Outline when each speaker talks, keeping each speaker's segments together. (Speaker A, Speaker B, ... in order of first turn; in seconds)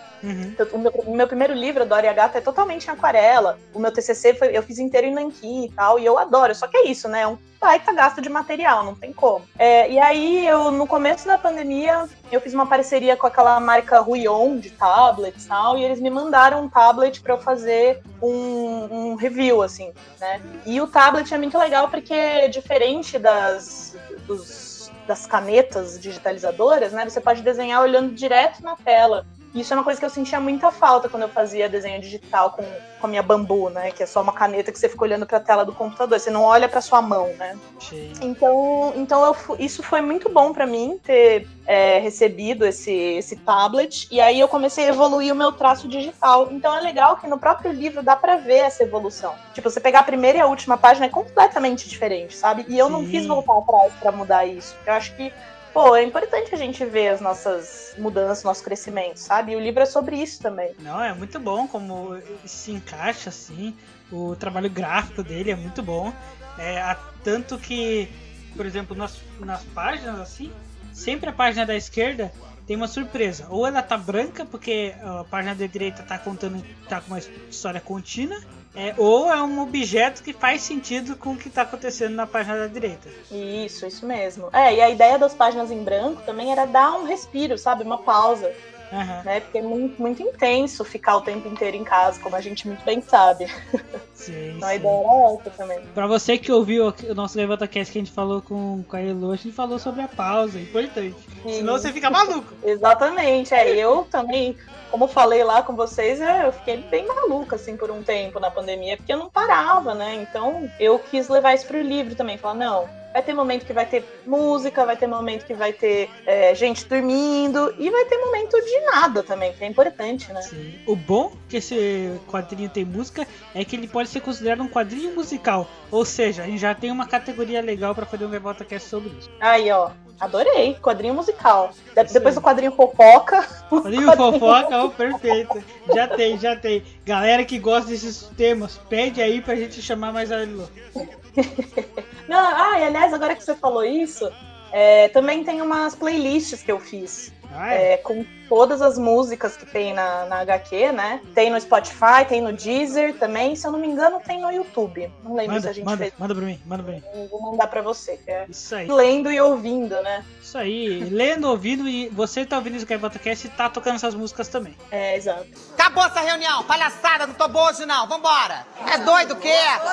Speaker A: 0.2-0.6, 37.8-38.2, 52.8-53.5, 60.8-83.1, 88.9-89.2, 94.2-95.0, 95.9-102.6, 120.5-129.3, 132.0-132.4, 133.8-140.7, 147.5-147.9, 155.5-157.0, 158.5-158.9, 160.4-164.8
Speaker B: 0.6-37.6, 38.2-60.7, 83.3-88.6, 89.2-93.5, 94.6-95.9, 101.4-120.5, 129.4-134.7, 141.4-156.1, 157.0-160.2, 164.9-165.5
Speaker C: 165.8-169.8